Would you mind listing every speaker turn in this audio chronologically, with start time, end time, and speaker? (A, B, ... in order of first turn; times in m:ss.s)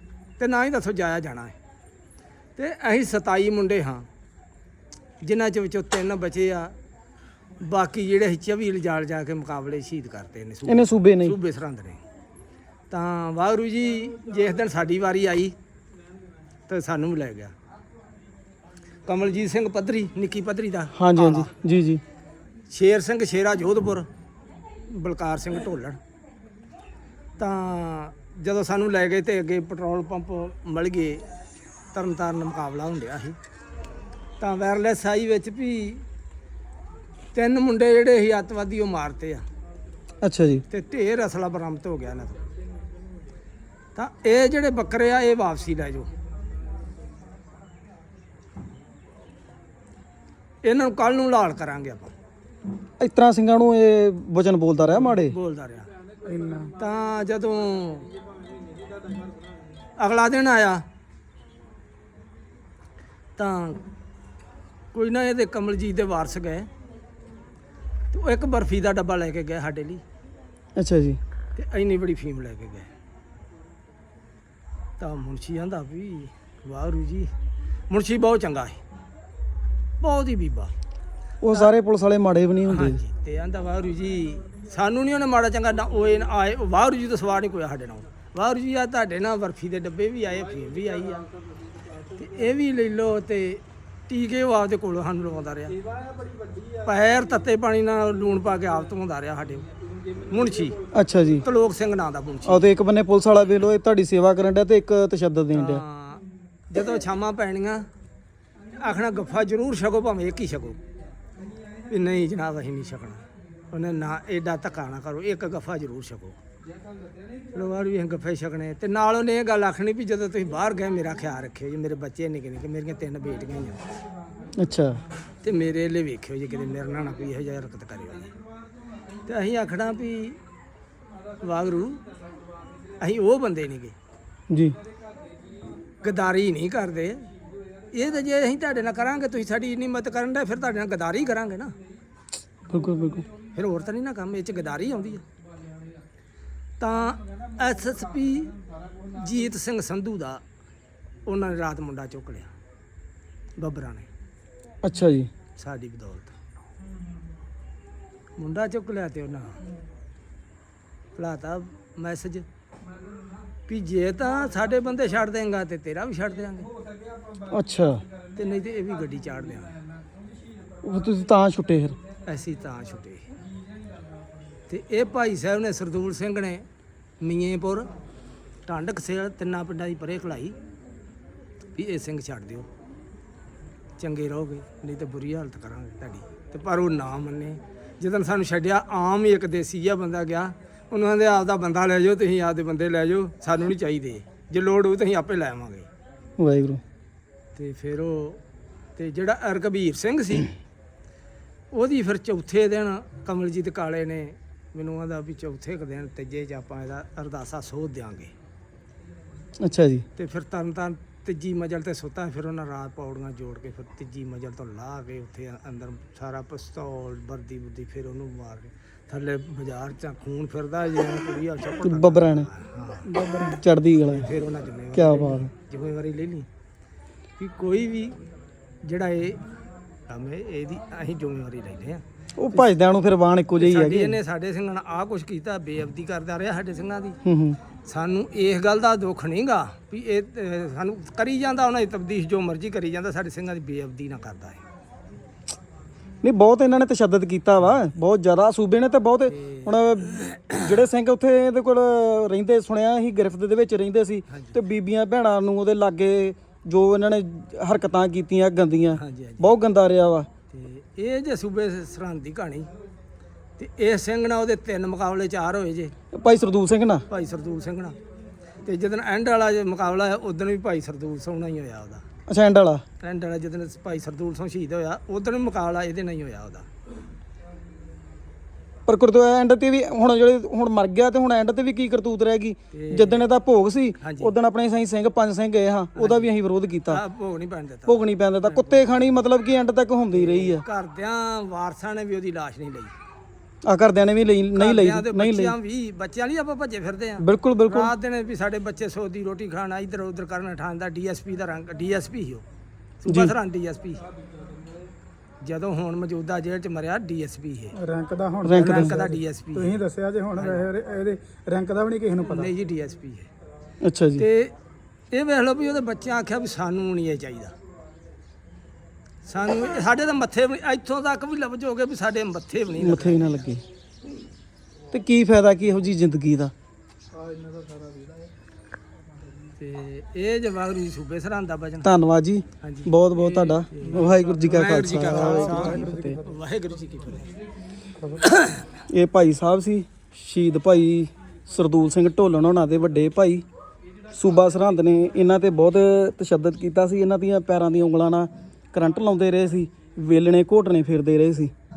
0:00.4-0:01.6 A
0:02.6-0:04.1 A
0:05.2-0:06.7 A
0:07.6-0:12.0 A
0:10.6-0:11.4 B
0:12.9-0:15.5 A
0:16.7-0:17.5 A
0:19.0-0:21.5 A
0:20.9-0:22.0 B
0:22.7-0:24.1 A
0:24.8-0:26.0 A
0:27.4-0:31.2 A
0:31.9-0:33.4 A
0:34.4-0:36.0 A
0:37.3-0:39.4 A
0:40.2-0:40.6 B
0:40.7-0:42.5 A
0:43.9-0:46.1 A
0:50.6-0:52.1 A
0:53.0-0:55.4 B
0:55.2-0:55.9 A
0:56.2-0:56.7 C
0:56.8-0:58.1 A
1:00.0-1:00.8 A
1:03.4-1:03.8 A
1:04.9-1:06.7 A
1:08.1-1:10.0 A
1:10.8-1:11.2 B
1:11.5-1:12.9 A
1:15.0-1:17.3 A
1:17.9-1:18.8 A
1:20.0-1:20.7 A
1:21.4-1:23.0 B
1:22.7-1:31.3 A
1:32.1-1:35.8 A
1:36.1-1:36.6 C
1:36.8-1:40.8 A
1:40.9-1:41.4 B
1:41.4-1:42.6 A
1:42.4-1:45.8 B
1:45.5-1:47.8 A
1:48.7-1:50.8 A
1:51.9-1:56.4 A
1:57.5-2:03.8 A
2:04.5-2:05.0 B
2:05.4-2:08.3 A
2:09.2-2:10.4 A
2:11.4-2:12.0 A
2:13.0-2:13.9 A
2:14.5-2:14.8 B
2:16.0-2:17.3 A
2:17.9-2:21.7 A
2:22.7-2:23.2 B
2:23.5-2:25.2 A
2:26.8-2:30.4 A
2:31.2-2:32.5 A
2:33.6-2:34.1 A
2:34.8-2:35.3 B
2:35.6-2:36.3 A
2:38.4-2:39.6 A
2:41.1-2:42.4 A
2:43.7-2:46.7 A
2:47.4-2:48.1 B
2:48.3-2:49.8 A
2:50.8-2:52.0 B
2:52.2-2:53.3 A
2:54.7-2:56.7 A
2:57.2-2:57.9 A
2:58.6-3:00.5 A
3:01.7-3:02.7 A
3:04.0-3:15.9 A
3:16.4-3:16.8 B
3:17.5-3:18.4 A
3:19.0-3:20.5 A
3:21.7-3:28.3 A
3:29.6-3:30.0 B
3:30.2-3:43.1 A
3:41.8-3:42.5 B
3:43.1-3:44.3 B
3:44.0-3:46.5 A
3:44.9-3:45.5 B
3:47.4-3:48.2 A
3:48.8-3:49.4 A
3:50.1-3:52.0 A
3:52.4-3:54.2 B
3:53.6-3:57.2 A
3:57.2-3:57.6 B
3:57.8-4:04.6 A
4:06.2-4:20.3 B
4:09.3-4:10.6 A
4:14.3-4:14.6 A
4:19.0-4:19.5 A
4:20.5-4:22.7 A
4:23.6-4:25.9 A
4:26.1-4:27.0 B
4:27.1-4:28.0 A
4:28.6-4:32.0 A
4:32.3-4:32.8 B
4:33.0-4:36.7 A
4:38.8-4:47.0 B
4:42.7-4:43.2 A
4:44.0-4:44.3 A
4:45.9-4:46.3 A
4:46.9-4:49.0 A
4:47.9-4:50.6 B
4:50.1-4:52.9 A
4:53.6-4:55.5 B
4:54.5-5:02.4 A
4:57.2-4:57.9 B
5:03.0-5:04.0 A
5:03.1-5:03.3 B
5:05.4-5:07.8 A
5:07.8-5:08.6 C
5:08.4-5:09.0 B
5:08.4-5:09.8 A
5:09.6-5:12.5 C
5:10.4-5:10.7 A
5:12.2-5:13.3 A
5:13.8-5:14.2 B
5:14.2-5:14.5 A
5:15.1-5:17.5 A
5:19.2-5:23.4 A
5:22.8-5:23.6 B
5:24.9-5:26.5 B
5:27.7-5:28.1 C
5:29.6-5:31.9 A
5:31.8-5:36.2 B
5:32.6-5:37.3 A
5:35.2-5:36.1 C
5:38.0-5:38.7 A
5:38.7-5:43.4 B
5:44.1-5:51.5 B